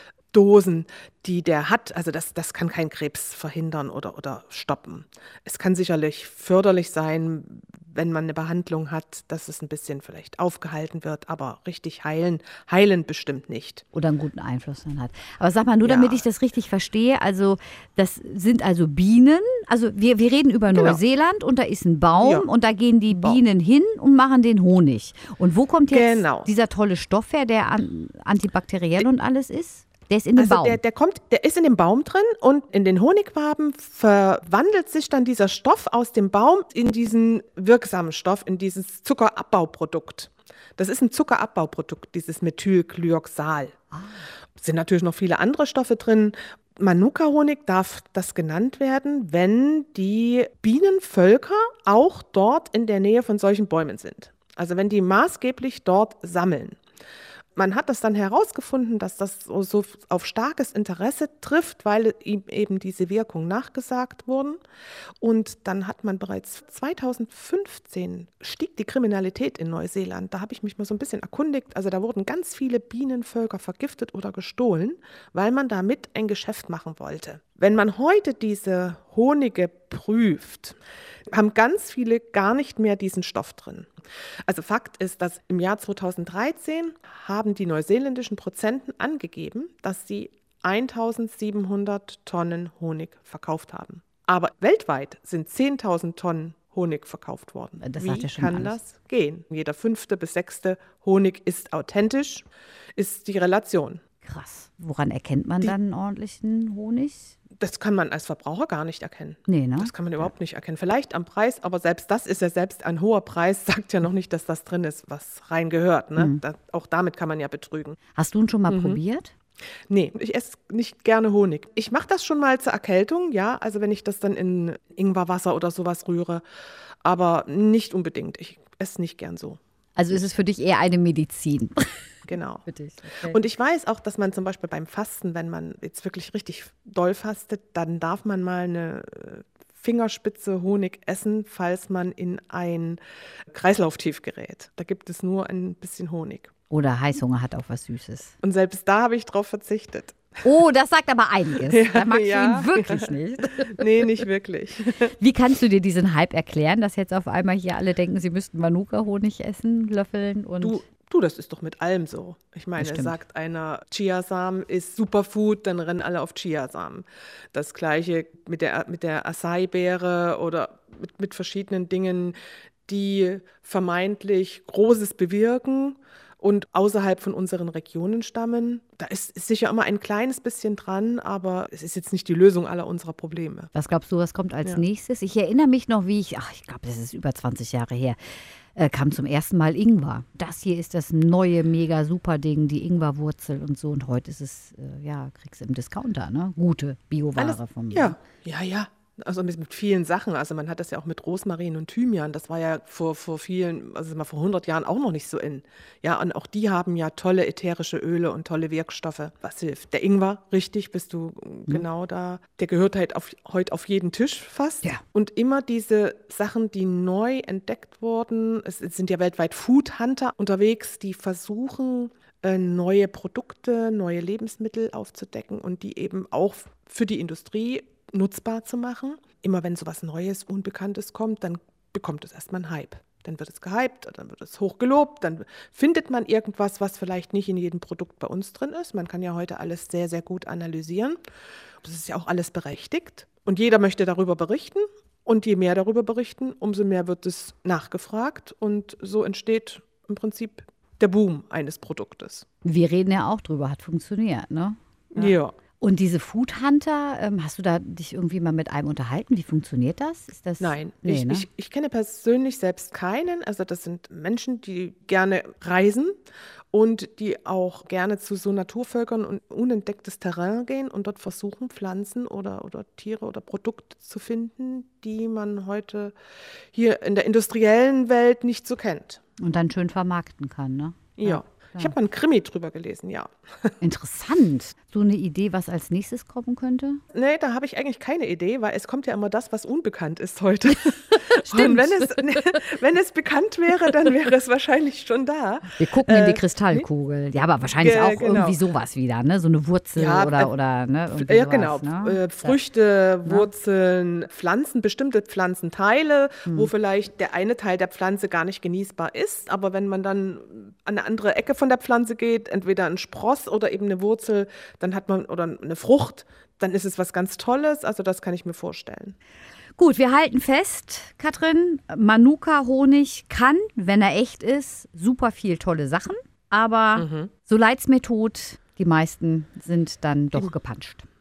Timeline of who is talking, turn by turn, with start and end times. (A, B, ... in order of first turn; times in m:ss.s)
0:00.3-0:13.8 A
0:13.9-0:30.8 B
0:15.8-0:16.2 A
0:20.7-0:21.0 A
0:22.2-0:22.5 A
0:23.1-0:23.4 A
0:25.9-0:26.5 A
0:30.4-0:43.8 A
0:43.9-0:44.2 B
0:44.6-0:56.8 A
0:57.6-1:04.6 A
1:05.2-1:20.8 A
1:21.3-1:23.9 A
1:24.5-1:44.0 A
1:37.8-1:38.8 B
1:44.2-1:47.4 B
1:47.6-1:58.0 A
1:49.5-1:50.3 B
1:56.2-1:56.4 B
1:58.1-1:59.3 B
1:58.7-1:59.0 A
1:59.9-2:06.4 A
2:07.0-2:09.6 A
2:10.0-2:13.4 B
2:12.3-2:12.6 A
2:13.2-2:23.0 A
2:23.5-2:26.5 A
2:26.7-2:28.3 B
2:28.4-2:30.2 A
2:30.4-2:34.2 B
2:31.6-2:35.2 A
2:35.1-2:40.8 B
2:40.6-2:52.3 A
2:42.8-2:43.2 B
2:52.9-3:03.7 A
3:03.7-3:08.2 B
3:08.7-3:18.2 B
3:17.4-4:01.2 A
4:01.8-4:12.4 A
4:12.6-4:21.5 B
4:15.1-4:15.6 A
4:20.6-4:26.2 A
4:26.7-4:36.1 A
4:36.7-4:39.2 A
4:39.4-4:42.0 B
4:41.2-4:43.7 A
4:43.8-4:47.0 B
4:47.1-4:56.9 A
4:51.4-4:52.2 B
4:55.7-5:02.6 B
4:57.8-4:58.6 A
5:00.0-5:00.5 A
5:01.1-5:19.2 A
5:06.4-5:06.7 B
5:19.8-5:31.0 B
5:27.0-5:27.3 A